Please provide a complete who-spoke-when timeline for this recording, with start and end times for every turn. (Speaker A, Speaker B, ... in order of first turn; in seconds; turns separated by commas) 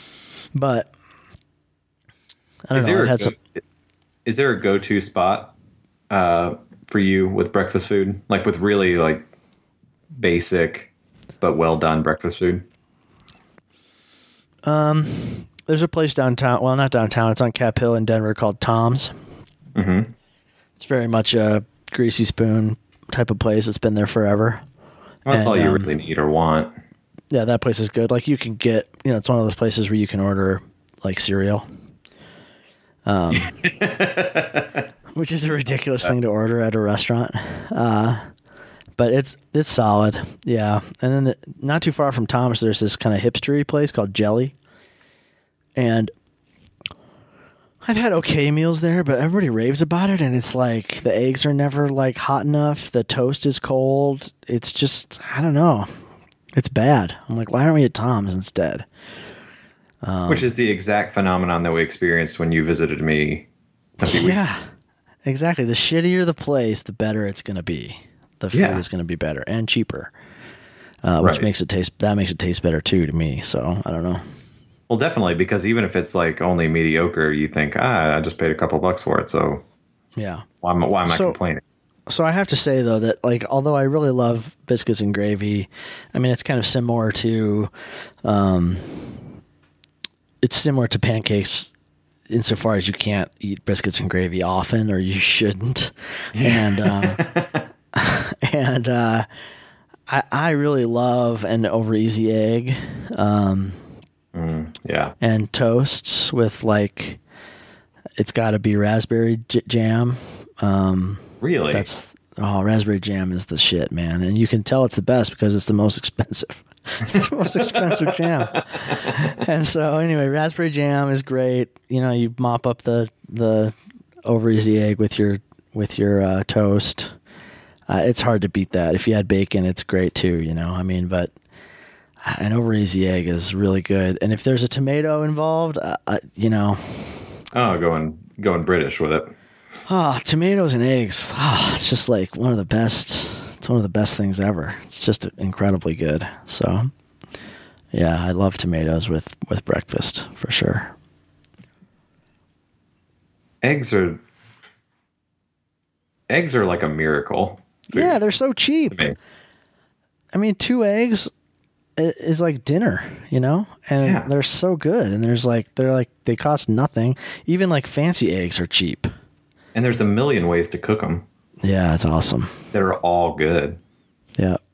Speaker A: 0.5-0.9, Speaker A: 2.7-3.3, Speaker B: 2.7-3.4, Speaker B: 4.2-5.5, Speaker B: 6.1-9.3, Speaker B: 10.2-10.9, Speaker B: 11.4-12.6, Speaker A: 14.6-19.1, Speaker B: 19.7-20.1, Speaker A: 20.8-24.6, Speaker B: 25.2-26.7, Speaker A: 25.3-25.9, Speaker A: 27.3-31.6, Speaker A: 33.0-33.5, Speaker B: 33.3-34.8, Speaker A: 35.1-38.2, Speaker A: 39.0-44.5, Speaker A: 45.8-46.1, Speaker A: 47.8-55.9, Speaker A: 56.5-58.9, Speaker A: 60.0-60.5, Speaker B: 60.3-63.5, Speaker B: 64.0-64.4, Speaker A: 64.0-64.7, Speaker A: 65.2-70.1, Speaker B: 68.5-68.8, Speaker A: 71.0-74.2, Speaker B: 71.2-71.5, Speaker B: 74.9-79.6, Speaker A: 80.2-80.4, Speaker B: 80.6-81.6, Speaker A: 81.0-81.4, Speaker A: 82.1-87.7, Speaker A: 88.2-89.2, Speaker A: 90.4-91.7, Speaker A: 92.3-97.2, Speaker B: 96.4-97.6, Speaker A: 97.9-99.3, Speaker A: 100.1-103.8, Speaker B: 104.3-105.1, Speaker A: 105.2-107.2, Speaker A: 108.2-127.1, Speaker B: 111.4-111.8, Speaker B: 117.2-118.0, Speaker A: 127.9-131.3, Speaker A: 132.2-137.2, Speaker B: 137.5-139.3, Speaker A: 139.9-146.9, Speaker A: 147.9-150.9, Speaker B: 153.6-154.2, Speaker B: 156.3-158.2, Speaker A: 157.9-159.1, Speaker B: 158.9-159.2, Speaker A: 160.3-161.3, Speaker A: 162.0-169.1, Speaker B: 164.0-164.3, Speaker B: 169.7-171.2, Speaker A: 171.6-172.5, Speaker B: 172.7-173.8